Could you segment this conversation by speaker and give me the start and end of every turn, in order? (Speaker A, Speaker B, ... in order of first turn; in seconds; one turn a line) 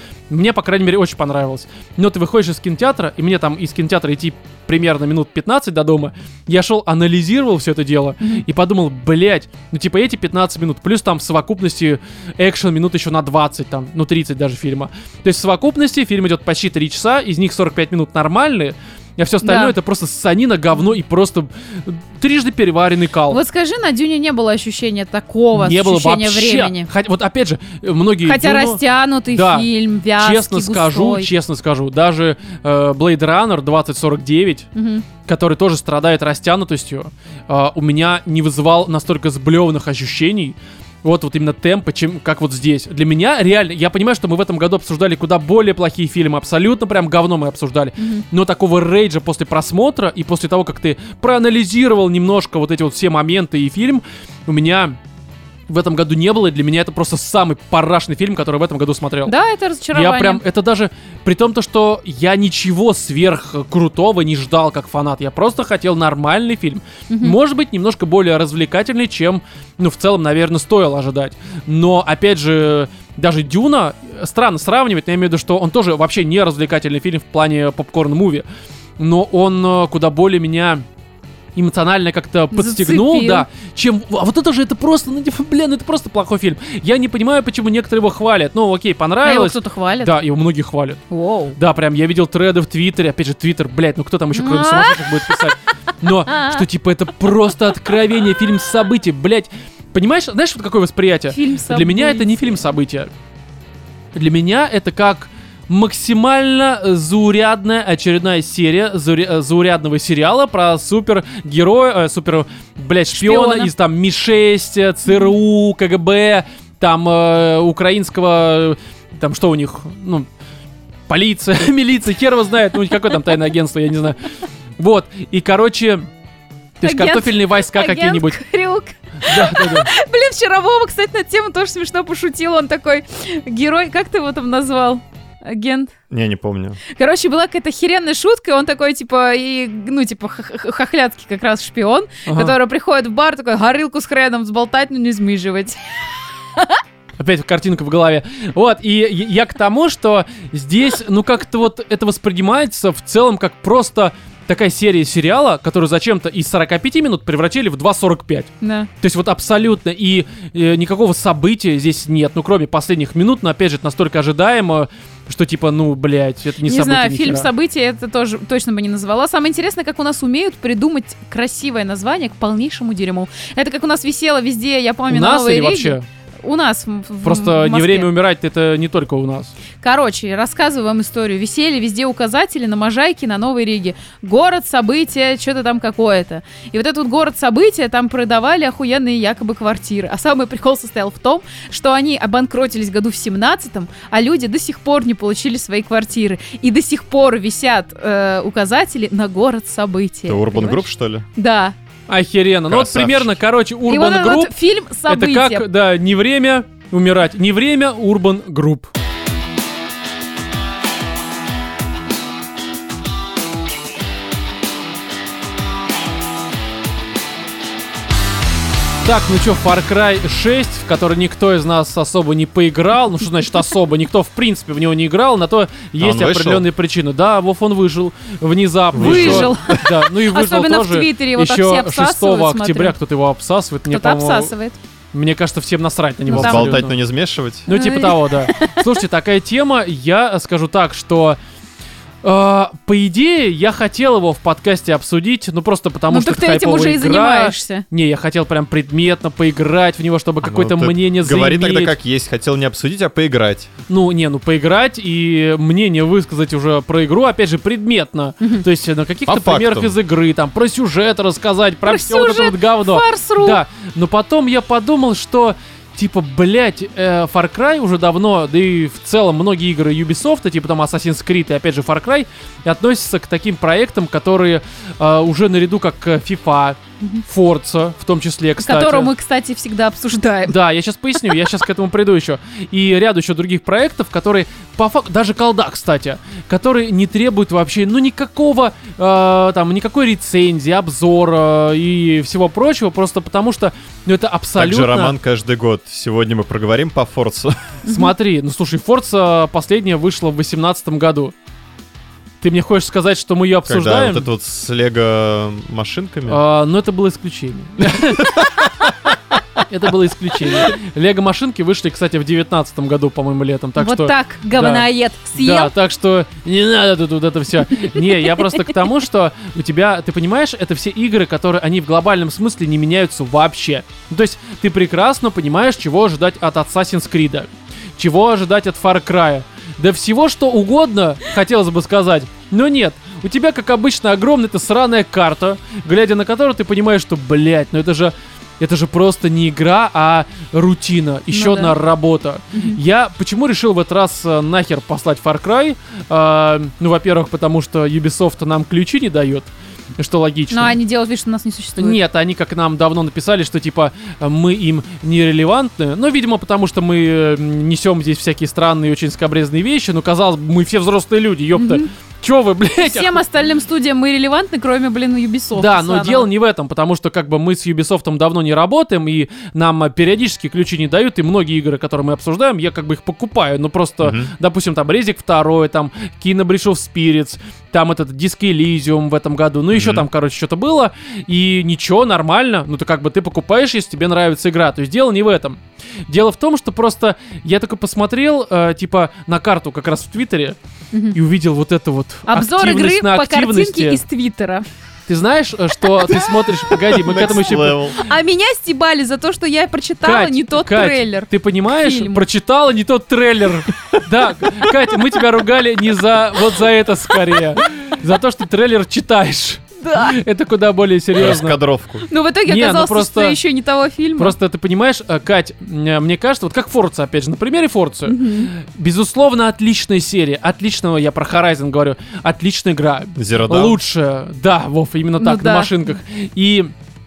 Speaker A: 0.3-23.4
Speaker B: 19.4-19.8
Speaker B: 23.3-26.9
Speaker A: 25.5-34.7
Speaker B: 28.2-31.3
Speaker B: 34.8-35.1
Speaker A: 35.2-55.0
Speaker B: 48.0-48.2
Speaker A: 55.7-59.3
Speaker B: 59.3-60.4
Speaker A: 59.9-78.5
Speaker B: 67.1-67.4
Speaker A: 79.0-80.8
Speaker A: 81.6-91.0
Speaker B: 82.5-83.5
Speaker B: 89.2-90.2
Speaker B: 91.1-91.6
Speaker A: 91.6-103.1
Speaker B: 94.3-95.5
Speaker B: 96.3-96.6
Speaker B: 101.3-102.6
Speaker A: 104.2-120.3
Speaker B: 113.1-113.7
Speaker B: 115.1-115.3
Speaker A: 121.1-126.1
Speaker A: 126.8-128.4
Speaker B: 126.8-135.9
Speaker A: 129.2-129.9
Speaker C: 136.1-136.8
Speaker B: 136.9-145.8
Speaker A: 142.3-142.6
Speaker B: 146.6-146.8
Speaker A: 147.2-167.5
Speaker B: 158.6-158.9
Speaker B: 166.6-178.1
Speaker A: 175.1-176.1
Speaker A: 177.2-179.5
Speaker B: 179.8-201.8
Speaker C: 200.3-201.3
Speaker A: 202.1-204.5
Speaker C: 202.7-203.4
Speaker B: 203.9-205.7
Speaker A: 205.1-208.9
Speaker A: 219.0-234.5
Speaker C: 226.0-226.7
Speaker C: 228.9-229.9
Speaker B: 229.0-233.0
Speaker B: 233.9-234.8
Speaker A: 235.1-237.0
Speaker B: 236.3-236.8
Speaker C: 236.3-237.7
Speaker A: 237.7-241.4
Speaker B: 237.7-238.8
Speaker A: 242.2-251.9
Speaker B: 246.1-247.8
Speaker C: 250.4-253.7
Speaker A: 253.9-279.1
Speaker C: 259.3-259.9
Speaker B: 261.9-263.6
Speaker B: 278.6-280.6
Speaker A: 280.5-295.2
Speaker C: 294.6-297.7
Speaker B: 297.9-298.1
Speaker A: 297.9-301.3
Speaker A: 302.4-304.3
Speaker C: 303.7-306.4
Speaker A: 306.3-308.7
Speaker C: 308.2-308.6
Speaker A: 309.6-350.8
Speaker B: 313.8-315.7
Speaker B: 318.0-318.6
Speaker B: 341.3-341.7
Speaker B: 342.5-342.8
Speaker B: 350.5-352.0
Speaker A: 351.8-363.2
Speaker B: 361.6-361.9
Speaker B: 362.8-366.3
Speaker A: 365.6-390.6
Speaker C: 374.0-374.3
Speaker C: 379.7-380.1
Speaker A: 391.1-394.0
Speaker B: 392.3-394.6
Speaker A: 395.1-398.0
Speaker B: 396.0-402.2
Speaker C: 396.9-398.0
Speaker A: 400.0-411.6
Speaker B: 409.8-410.2
Speaker C: 411.2-412.1
Speaker B: 412.0-414.4
Speaker A: 412.5-413.4
Speaker A: 414.2-426.7
Speaker B: 418.1-418.5
Speaker C: 423.2-423.8
Speaker B: 425.2-425.9